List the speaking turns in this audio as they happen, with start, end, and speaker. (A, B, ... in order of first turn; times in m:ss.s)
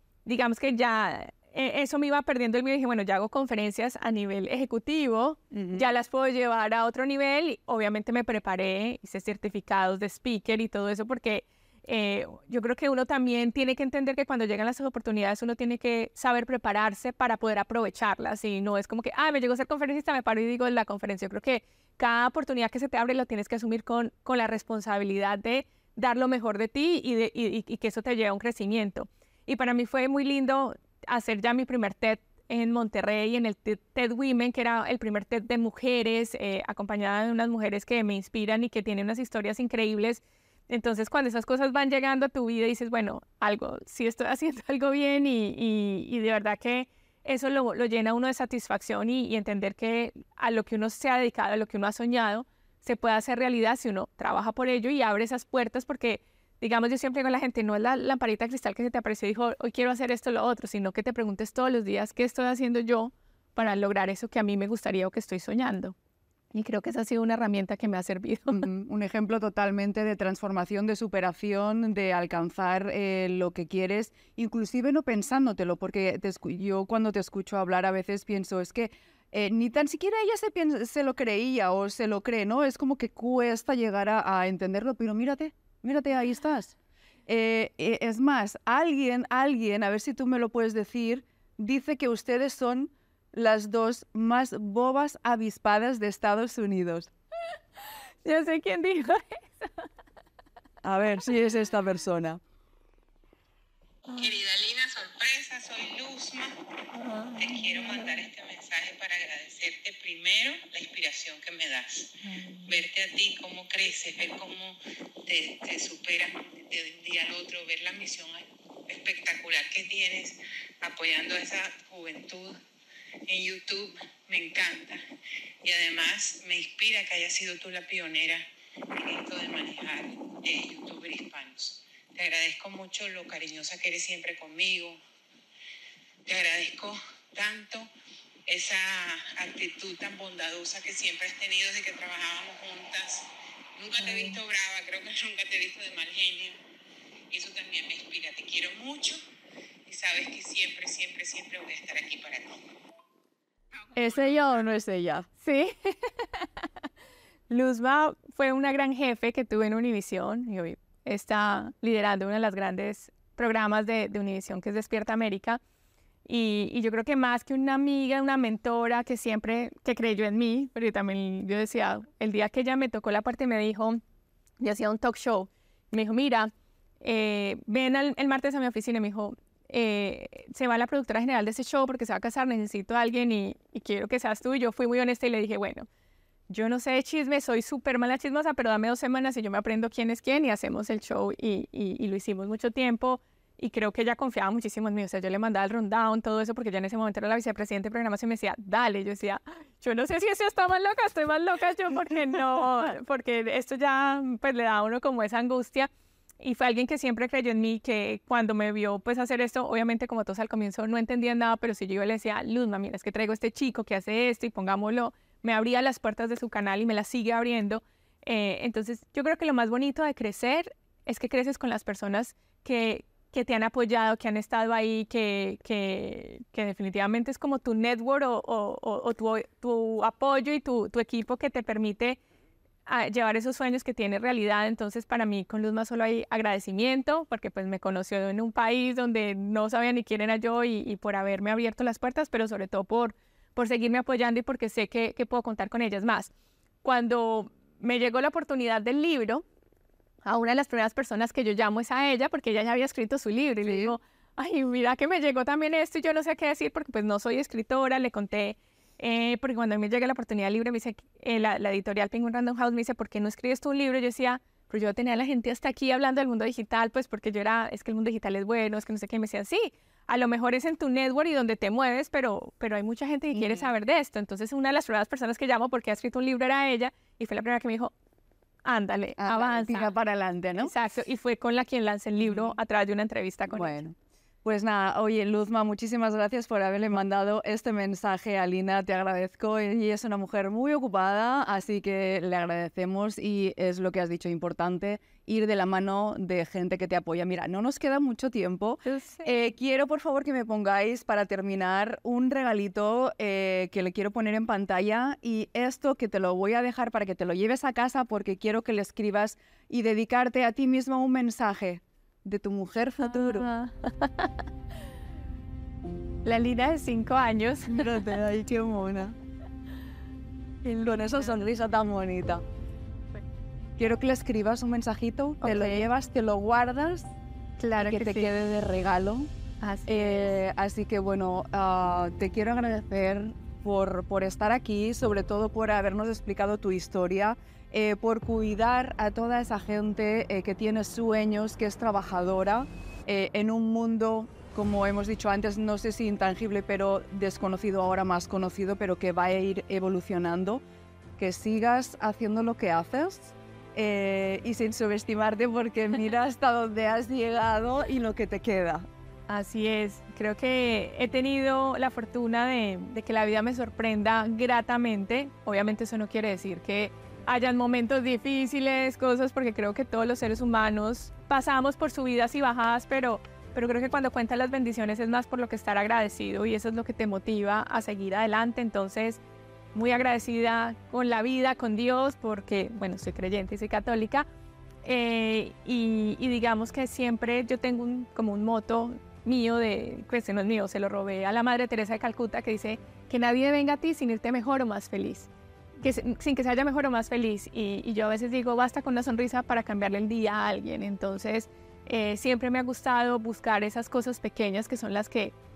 0:00.2-1:05.9 A
0:05.5-0:05.8 B
1:06.5-1:08.6 A
1:08.5-1:26.7 B
1:27.3-1:37.1 B
1:38.2-1:39.9 A
1:40.8-1:42.4 B
1:44.1-1:46.6 C
1:47.0-1:47.9 A
1:47.3-2:02.6 C
1:52.4-1:52.6 A
2:03.3-2:05.0 C
2:05.6-2:15.0 C
2:16.2-2:17.9 C
2:18.5-2:26.6 C
2:27.3-2:29.2 C
2:29.8-2:32.6 C
2:33.9-2:35.3 B
2:34.0-2:34.4 C
2:35.4-2:36.7 A
2:37.5-2:45.6 A
2:46.2-2:54.0 A
2:54.6-2:56.5 A
2:57.0-3:05.8 A
3:06.5-3:52.2 A
3:52.8-4:06.3 A
4:06.8-4:09.4 A
4:10.2-4:37.9 A
4:13.6-4:13.9 B
4:33.3-4:33.7 B
4:38.6-4:39.9 A
4:39.2-4:40.7 B
4:40.6-4:43.8 A
4:42.2-4:42.5 B
4:43.5-5:13.5 B
4:58.8-4:59.3 A
5:13.0-5:14.4 A
5:16.2-5:18.0 A
5:17.7-5:19.2 B
5:20.6-5:22.4 B
5:23.8-5:27.1 B
5:25.4-5:25.8 A
5:27.6-5:28.3 A
5:27.8-5:29.3 B
5:29.6-5:30.0 A
5:29.8-5:50.6 B
5:51.2-5:58.8 B
5:59.3-6:19.2 A
6:19.7-6:24.3 A
6:24.8-6:35.3 A
6:35.8-6:45.3 A